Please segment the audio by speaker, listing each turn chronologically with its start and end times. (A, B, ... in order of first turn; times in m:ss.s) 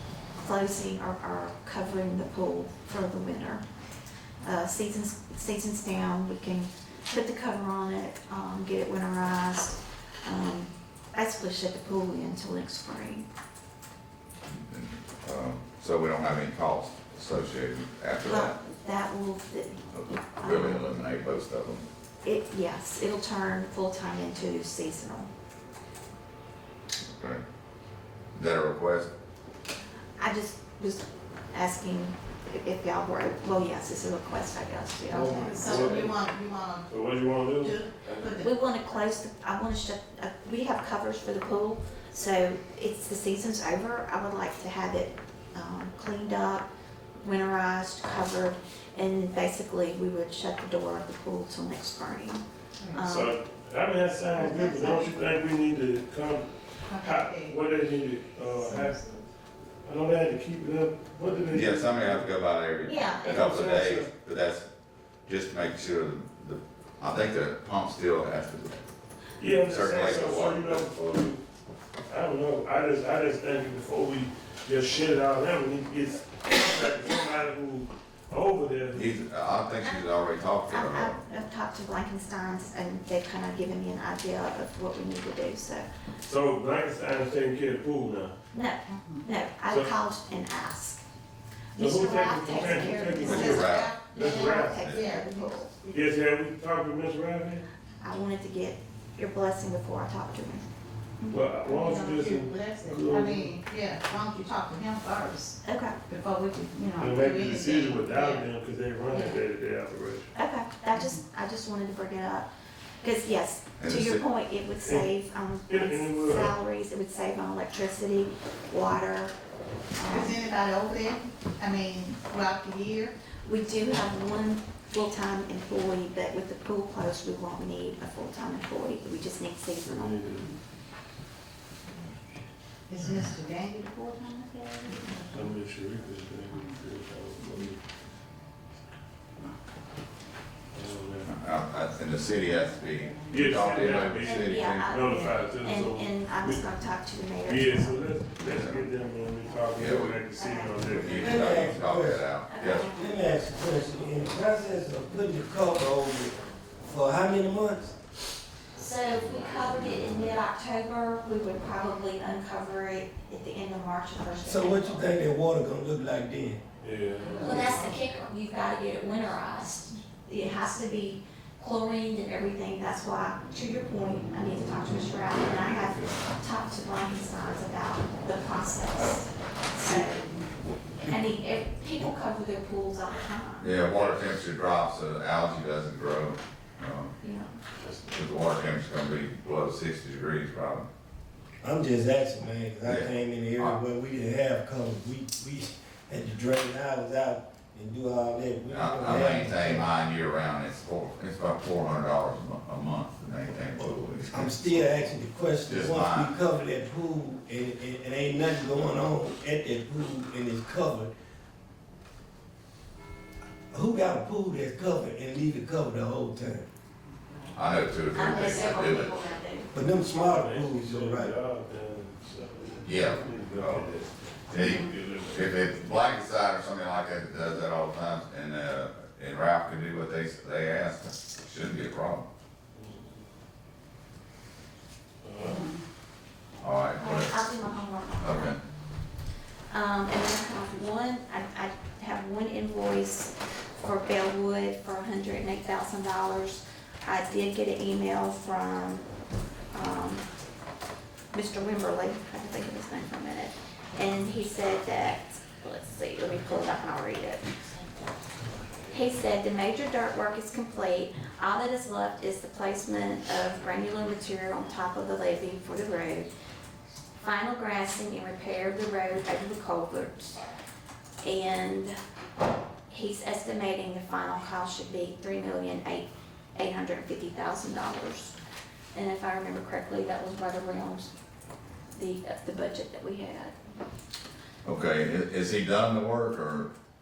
0:00.4-0:03.6 A
0:04.4-0:13.2 A
0:14.5-0:18.6 B
0:18.2-0:20.9 A
0:19.9-0:21.8 B
0:22.2-0:25.3 A
0:27.1-0:27.4 B
0:28.4-0:29.1 B
0:30.2-0:36.0 A
0:35.1-0:38.5 C
0:35.1-0:36.3 D
0:36.9-0:38.3 D
0:38.4-0:46.7 A
0:47.2-0:53.4 A
0:53.0-0:59.2 D
0:54.3-0:55.1 A
0:56.8-0:57.6 C
0:58.5-0:59.0 C
0:59.8-1:02.3 D
1:01.5-1:04.6 B
1:02.8-1:03.3 A
1:03.2-1:04.1 D
1:05.2-1:08.8 B
1:09.4-1:11.4 D
1:09.5-1:10.9 B
1:12.1-1:19.1 D
1:18.9-1:21.2 B
1:20.7-1:25.9 A
1:26.2-1:28.3 D
1:28.5-1:31.0 A
1:31.7-1:35.7 A
1:31.8-1:34.8 D
1:32.7-1:36.0 C
1:33.2-1:33.9 B
1:34.7-1:35.0 B
1:35.9-1:37.6 D
1:38.0-1:40.6 A
1:41.3-1:43.6 D
1:41.6-1:48.4 C
1:45.6-1:46.0 A
1:47.0-1:50.3 D
1:50.4-1:52.5 A
1:53.0-1:59.3 A
1:53.8-1:54.2 B
1:54.8-1:55.1 D
1:55.7-1:56.5 D
2:00.0-2:00.4 A
2:00.1-2:03.1 C
2:03.4-2:10.3 A
2:09.8-2:10.6 D
2:12.9-2:15.5 C
2:15.3-2:17.8 D
2:20.7-2:21.3 D
2:21.2-2:25.0 B
2:23.3-2:26.6 D
2:24.2-2:28.0 A
2:27.4-2:31.5 D
2:28.5-2:28.9 B
2:29.7-2:30.2 B
2:30.3-2:31.5 A
2:30.8-2:32.9 B
2:31.2-2:32.2 E
2:32.5-2:33.0 A
2:32.8-2:38.0 E
2:38.8-2:45.1 A
2:44.4-2:46.6 E
2:46.8-2:47.8 D
2:47.4-3:00.3 A
2:47.4-2:47.7 E
2:55.4-2:56.1 D
3:01.0-3:03.7 A
3:03.6-3:07.1 B
3:03.9-3:04.2 D
3:07.2-3:07.6 A
3:08.1-3:10.8 B
3:11.6-3:19.9 E
3:12.8-3:13.8 B
3:18.7-3:25.0 B
3:23.8-3:31.1 E
3:25.6-3:26.3 B
3:33.7-3:36.7 E
3:37.5-3:39.1 B
3:38.1-3:39.7 A
3:39.7-3:41.3 E
3:40.1-3:46.0 D
3:42.8-3:43.9 B
3:44.5-3:52.2 B
3:52.7-3:53.2 D
3:55.2-3:55.8 D
3:56.6-3:57.4 B
3:57.0-3:58.6 A
3:58.2-3:58.6 B
3:59.7-4:09.1 A
4:09.7-4:10.2 A
4:11.3-4:17.4 A
4:18.9-4:26.3 A
4:27.2-4:30.4 A
4:31.2-4:32.0 A
4:32.9-4:38.3 A
4:38.9-4:41.1 A
4:41.9-4:43.5 A
4:44.6-4:46.7 B